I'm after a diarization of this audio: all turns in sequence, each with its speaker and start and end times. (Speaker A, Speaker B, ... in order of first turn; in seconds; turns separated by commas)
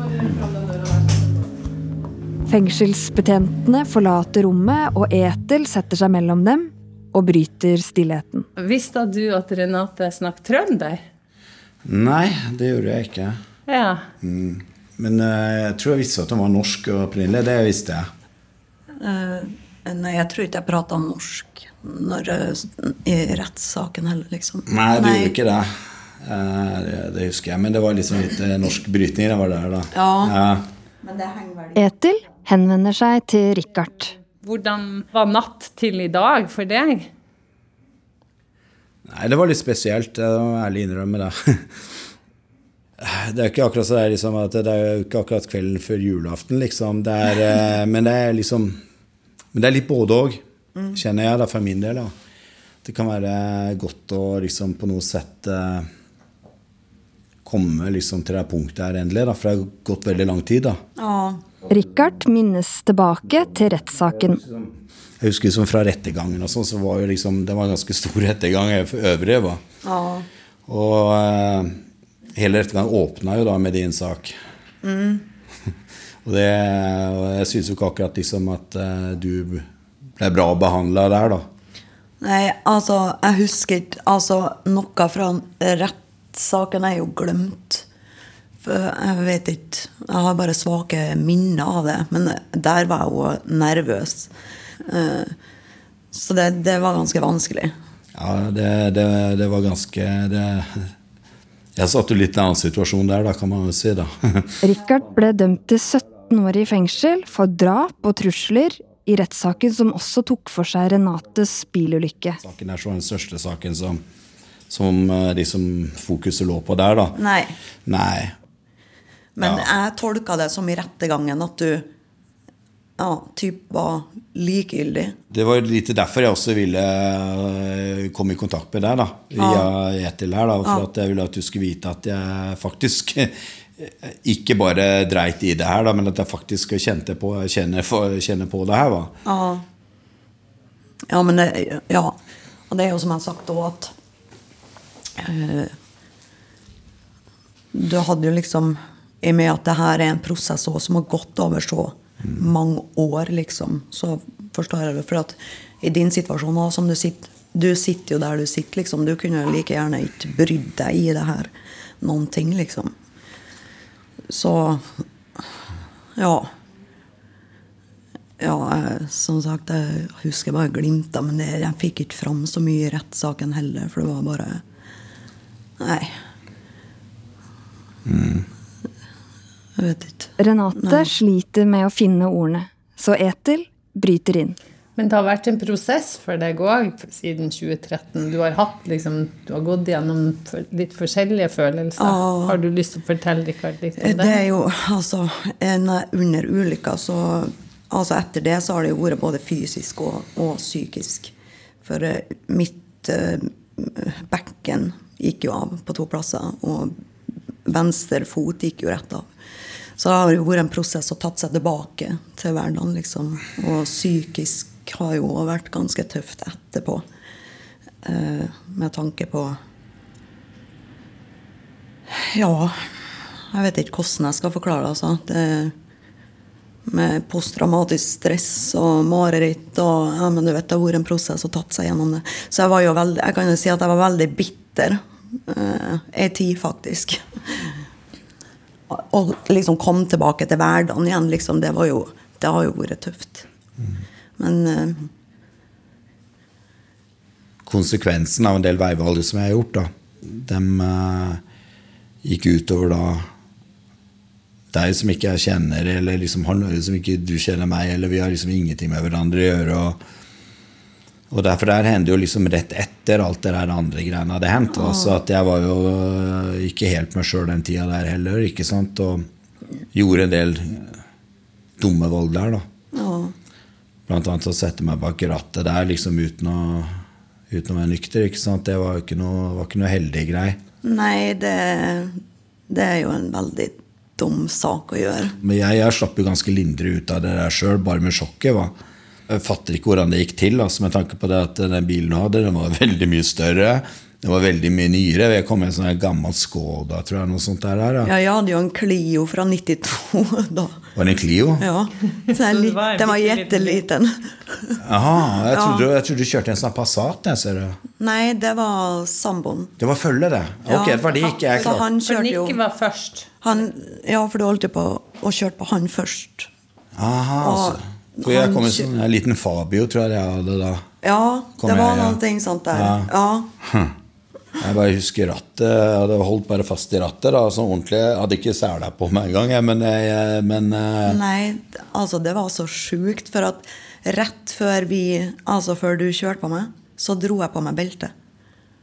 Speaker A: 2.5-8.5, Speaker B: 8.6-11.0, Speaker C: 11.8-13.4, Speaker B: 13.7-14.1, Speaker C: 14.2-18.1, Speaker D: 19.0-25.3, Speaker C: 24.7-30.6, Speaker D: 29.9-30.4, Speaker D: 31.0-31.8, Speaker A: 31.8-34.1, Speaker B: 34.4-37.1, Speaker C: 39.1-41.9, Speaker C: 43.0-48.8, Speaker C: 49.5-52.1, Speaker D: 50.8-51.0, Speaker C: 52.8-55.9, Speaker C: 57.5-60.8, Speaker D: 61.0-61.5, Speaker A: 61.7-64.4, Speaker C: 64.4-69.6, Speaker D: 69.8-70.3, Speaker C: 70.7-71.8, Speaker C: 72.3-74.4, Speaker D: 74.8-75.2, Speaker C: 76.2-79.7, Speaker C: 80.2-81.5, Speaker D: 82.2-87.9, Speaker D: 88.6-94.3, Speaker D: 94.9-95.3, Speaker D: 96.1-97.7, Speaker C: 98.1-100.9, Speaker C: 101.8-104.5, Speaker A: 104.6-112.4, Speaker C: 112.4-114.0, Speaker C: 114.7-117.2, Speaker D: 117.2-117.5, Speaker C: 117.9-118.4, Speaker D: 119.4-121.9, Speaker C: 119.4-119.7, Speaker D: 123.0-125.2, Speaker C: 125.3-139.1, Speaker D: 129.4-129.7, Speaker D: 139.2-139.6, Speaker D: 141.1-142.2, Speaker D: 142.7-143.9, Speaker D: 145.2-145.7, Speaker D: 147.7-161.5, Speaker D: 162.0-162.9, Speaker D: 164.3-165.0, Speaker D: 166.2-166.5, Speaker D: 168.4-174.6, Speaker D: 175.8-176.1, Speaker C: 178.1-178.5, Speaker D: 179.8-181.1, Speaker A: 180.4-184.6, Speaker B: 185.0-194.4, Speaker D: 192.0-192.6, Speaker D: 194.0-201.3, Speaker D: 201.8-206.9, Speaker D: 207.6-209.3, Speaker D: 210.0-217.1, Speaker D: 218.0-219.6, Speaker D: 222.1-222.9, Speaker D: 223.5-225.7, Speaker D: 226.9-237.7, Speaker D: 238.9-243.5, Speaker D: 244.4-245.1, Speaker C: 247.6-251.4, Speaker C: 252.2-253.3, Speaker C: 254.7-260.0, Speaker C: 261.3-269.3, Speaker D: 264.7-265.1, Speaker C: 269.9-271.0, Speaker C: 271.8-272.7, Speaker D: 272.9-273.4, Speaker C: 274.1-280.6, Speaker D: 280.8-285.4, Speaker C: 285.4-288.7, Speaker C: 289.3-298.1, Speaker D: 298.0-300.8, Speaker C: 301.0-301.6, Speaker D: 301.6-304.8, Speaker B: 302.1-303.8, Speaker C: 304.8-307.8, Speaker D: 305.5-305.9, Speaker D: 308.0-309.7, Speaker C: 309.8-311.9, Speaker D: 310.7-312.6, Speaker B: 312.0-313.3, Speaker D: 313.4-316.5, Speaker C: 317.0-320.9, Speaker D: 317.4-318.9, Speaker D: 321.0-323.5, Speaker C: 321.6-322.2, Speaker C: 322.7-323.1, Speaker C: 323.6-323.9, Speaker C: 324.6-331.2, Speaker D: 331.1-338.1